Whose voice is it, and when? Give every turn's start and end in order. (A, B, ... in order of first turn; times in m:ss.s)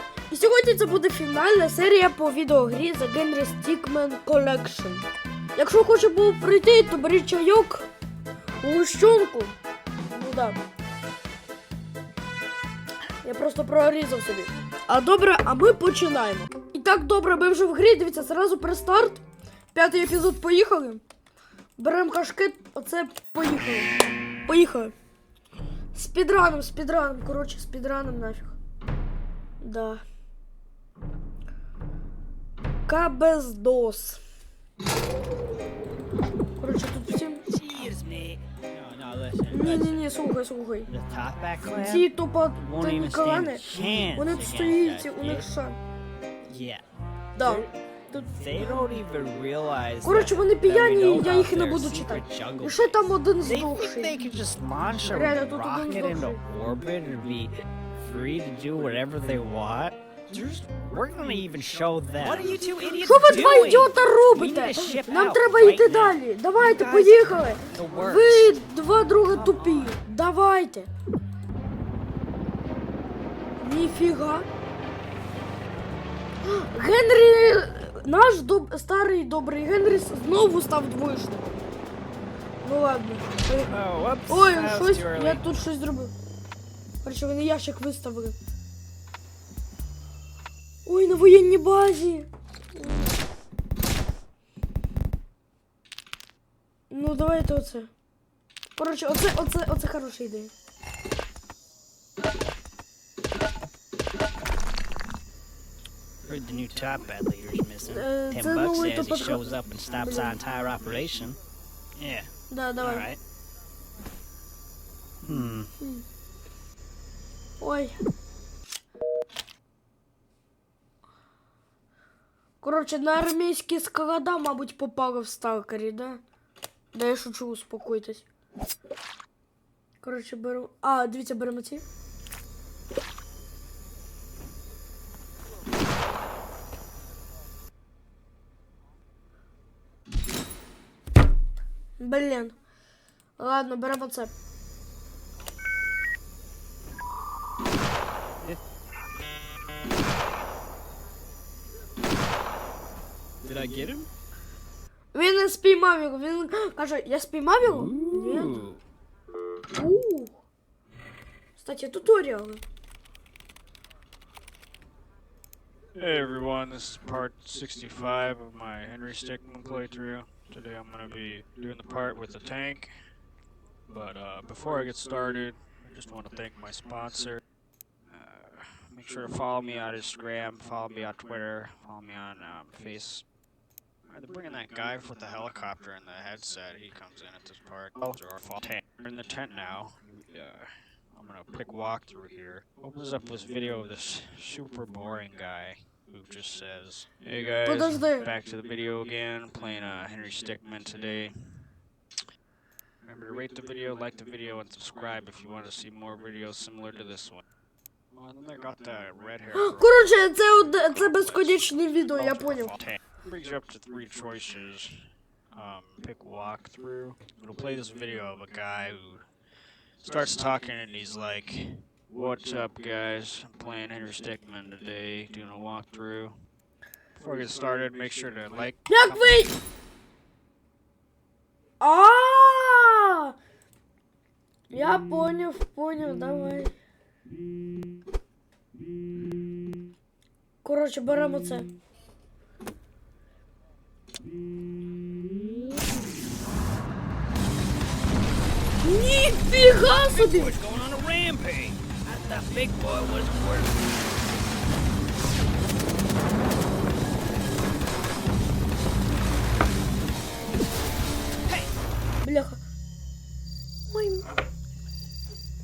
0:00.3-0:05.0 A
0:05.6-0:07.9 A
0:08.6-0:09.6 A
0:10.1-0:10.6 A
0:13.2-0:19.2 A
0:19.7-0:21.0 A
0:21.8-0:23.9 A
0:24.5-0:25.0 A
0:25.9-0:28.6 A
0:29.6-0:30.0 A
0:32.9-0:34.2 A
0:36.6-0:37.4 A
0:37.5-0:40.0 B
0:39.5-0:40.9 A
0:40.9-0:42.1 B
0:41.8-0:45.8 A
0:42.6-0:45.4 B
0:46.4-0:46.8 B
0:47.4-0:48.8 A
0:47.4-0:47.7 B
0:48.3-0:57.5 B
0:50.0-0:54.1 A
0:55.1-0:56.4 A
0:58.0-1:08.6 B
1:03.0-1:10.9 A
1:09.3-1:09.9 B
1:13.6-1:14.5 A
1:16.4-1:21.6 A
1:22.6-1:23.8 A
1:23.7-1:25.4 B
1:24.3-1:26.1 A
1:27.0-1:28.4 A
1:30.8-1:33.1 A
1:36.9-1:37.9 A
1:38.8-1:40.5 A
1:46.2-1:51.4 B
1:47.9-1:50.4 A
1:52.0-1:52.3 B
1:52.5-1:53.1 A
1:52.8-1:53.2 B
1:55.2-1:55.7 B
1:55.8-1:56.0 A
1:57.6-1:58.0 A
2:02.6-2:06.2 A
2:06.9-2:08.2 A
2:10.0-2:11.8 A
2:22.0-2:22.6 A
2:23.4-2:24.3 A
2:33.4-2:34.0 B
2:35.1-2:38.6 A
2:37.6-2:38.8 B
2:39.7-2:40.4 A
2:41.6-2:42.6 A
2:46.0-2:53.0 C
2:53.9-2:57.4 C
2:58.1-3:03.2 C
3:04.1-3:21.4 C
3:17.6-3:18.3 A
3:23.0-3:27.4 C
3:28.1-3:35.0 C
3:29.5-3:32.7 A
3:35.5-3:39.3 C
3:40.0-3:46.4 C
3:47.2-3:49.4 C
3:48.9-3:49.5 A
3:51.8-3:53.3 A
3:54.7-3:56.7 A
4:00.6-4:01.7 A
4:08.8-4:10.6 A
4:10.1-4:13.9 B
4:22.2-4:22.6 A
4:23.9-4:24.2 A